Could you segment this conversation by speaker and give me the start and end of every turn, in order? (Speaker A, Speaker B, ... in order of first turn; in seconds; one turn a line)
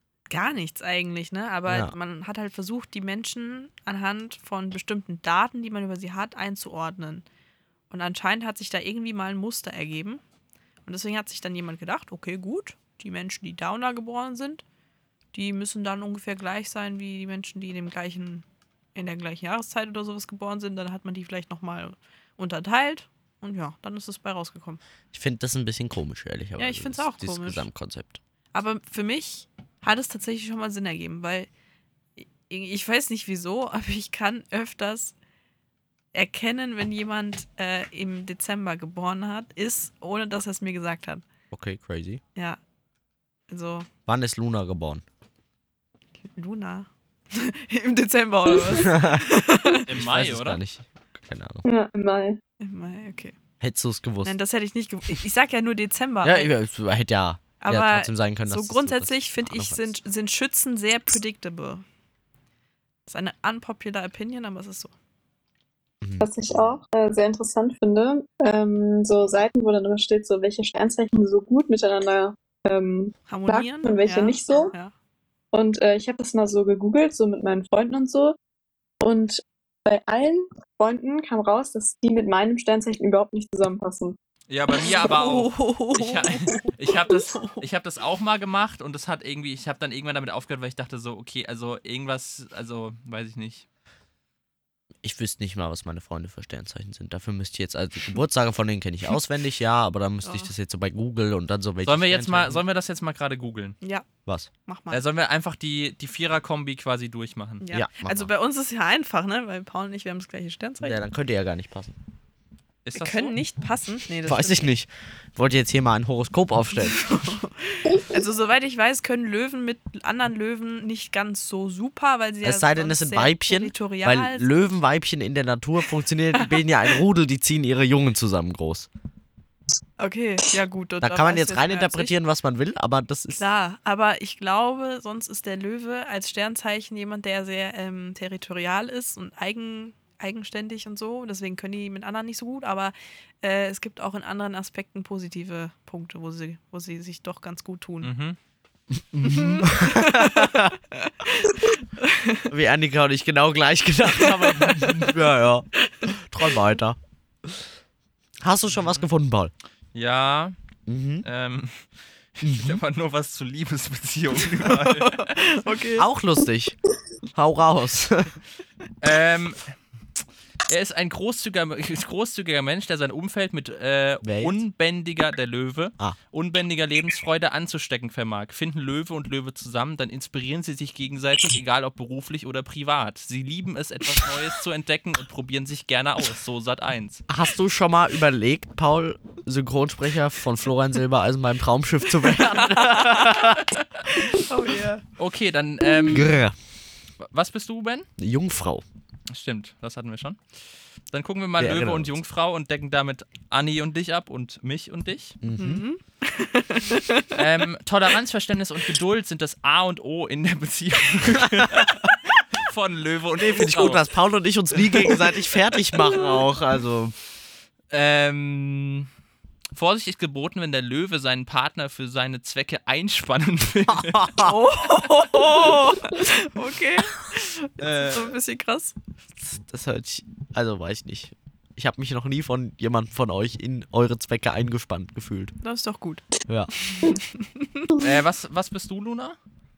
Speaker A: 0.3-7.2
Speaker B: 1.7-1.9
Speaker A: 7.9-10.2
Speaker A: 10.8-14.6
Speaker A: 15.3-24.8
Speaker B: 25.1-28.2
Speaker A: 26.6-27.7
Speaker A: 28.5-31.5
Speaker A: 32.2-35.1
Speaker A: 36.1-41.2
Speaker B: 41.5-42.2
Speaker A: 43.5-43.9
Speaker B: 44.1-45.0
Speaker A: 46.3-49.8
Speaker B: 48.5-51.6
Speaker C: 49.8-50.6
Speaker D: 51.6-52.4
Speaker A: 52.6-53.4
Speaker B: 53.6-54.3
Speaker A: 54.2-56.5
Speaker B: 56.2-59.9
Speaker A: 57.6-61.8
Speaker A: 63.1-64.9
Speaker B: 66.0-66.8
Speaker D: 66.2-74.7
Speaker A: 73.3-74.9
Speaker D: 75.5-78.3
Speaker D: 79.0-84.2
Speaker C: 84.5-93.7
Speaker A: 84.7-87.6
Speaker B: 95.0-102.6
Speaker A: 100.2-100.5
Speaker C: 101.8-103.8
Speaker A: 104.7-105.0
Speaker C: 104.9-107.6
Speaker A: 107.6-111.0
Speaker B: 107.7-108.3
Speaker B: 110.8-111.9
Speaker C: 112.8-113.4
Speaker A: 112.9-114.7
Speaker B: 114.2-117.1
Speaker A: 116.8-124.5
Speaker B: 122.4-128.9
Speaker A: 130.0-132.1
Speaker B: 131.0-133.4
Speaker A: 133.4-148.1
Speaker C: 148.0-148.4
Speaker B: 149.1-150.7
Speaker A: 149.2-152.5
Speaker B: 152.5-157.0
Speaker A: 154.2-155.1
Speaker A: 155.8-156.6
Speaker B: 158.4-159.5
Speaker C: 158.8-159.0
Speaker C: 159.9-160.6
Speaker B: 160.9-161.2
Speaker C: 161.2-165.3
Speaker B: 162.4-162.8
Speaker A: 164.6-166.1
Speaker B: 165.9-166.8
Speaker B: 167.3-168.4
Speaker C: 169.0-169.6
Speaker C: 170.7-187.2
Speaker B: 174.2-174.6
Speaker B: 187.3-193.7
Speaker A: 192.7-193.5
Speaker C: 193.3-194.3
Speaker A: 194.4-195.0
Speaker C: 195.2-196.3
Speaker A: 195.8-196.2
Speaker B: 196.1-196.5
Speaker C: 197.2-198.1
Speaker B: 198.2-198.8
Speaker C: 199.3-200.4
Speaker C: 201.1-205.4
Speaker B: 201.6-202.2
Speaker B: 205.4-205.8
Speaker A: 205.6-207.4
Speaker C: 207.3-214.0
Speaker B: 211.4-211.9
Speaker B: 213.4-217.1
Speaker C: 217.9-219.1
Speaker C: 219.7-224.4
Speaker B: 223.9-224.6
Speaker A: 224.4-228.9
Speaker C: 227.8-228.3
Speaker B: 229.4-235.5
Speaker A: 235.6-236.2
Speaker A: 236.9-237.9
Speaker C: 238.0-239.4